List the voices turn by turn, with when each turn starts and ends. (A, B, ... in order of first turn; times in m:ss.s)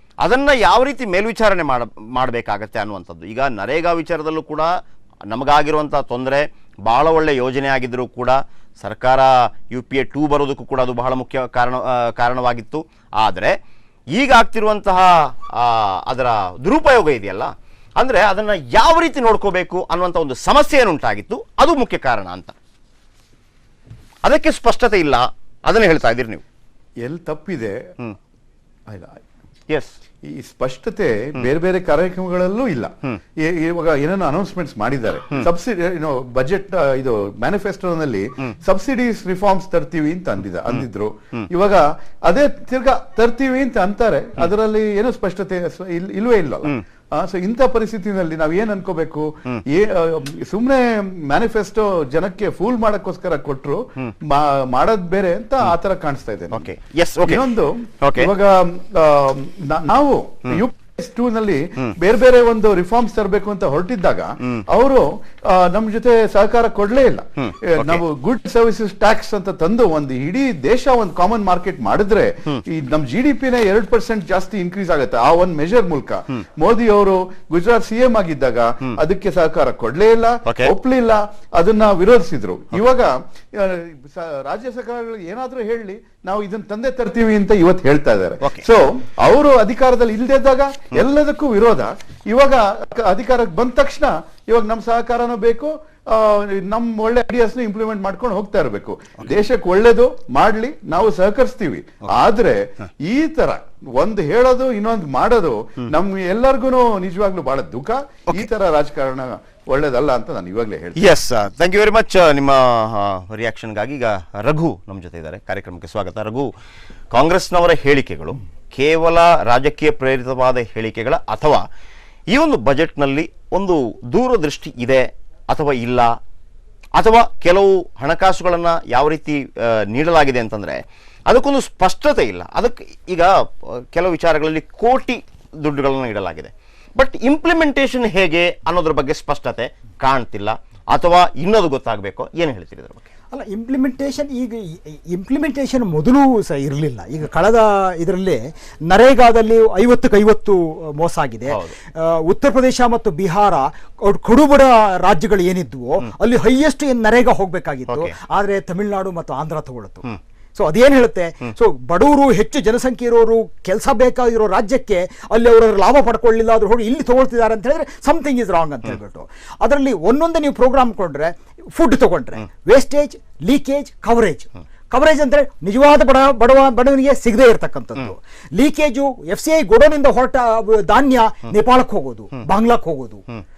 0:00.2-0:13.6 A
0:14.1-0:22.5 A
0:24.2-0:26.4 A
0:27.0-0:27.9 B
0:28.9-0:29.2 B
0:29.7-0:30.0 A
0:30.2-0:56.7 B
0:56.5-0:57.5 A
0:57.2-1:51.0 B
0:58.0-0:58.3 A
1:07.4-1:08.0 A
1:20.4-1:20.7 A
1:51.0-1:56.5 A
1:57.1-2:01.7 A
2:02.3-2:06.1 A
2:07.0-2:23.1 A
2:23.3-2:40.0 C
2:31.5-2:31.7 A
2:37.9-2:38.1 A
2:40.6-3:03.2 C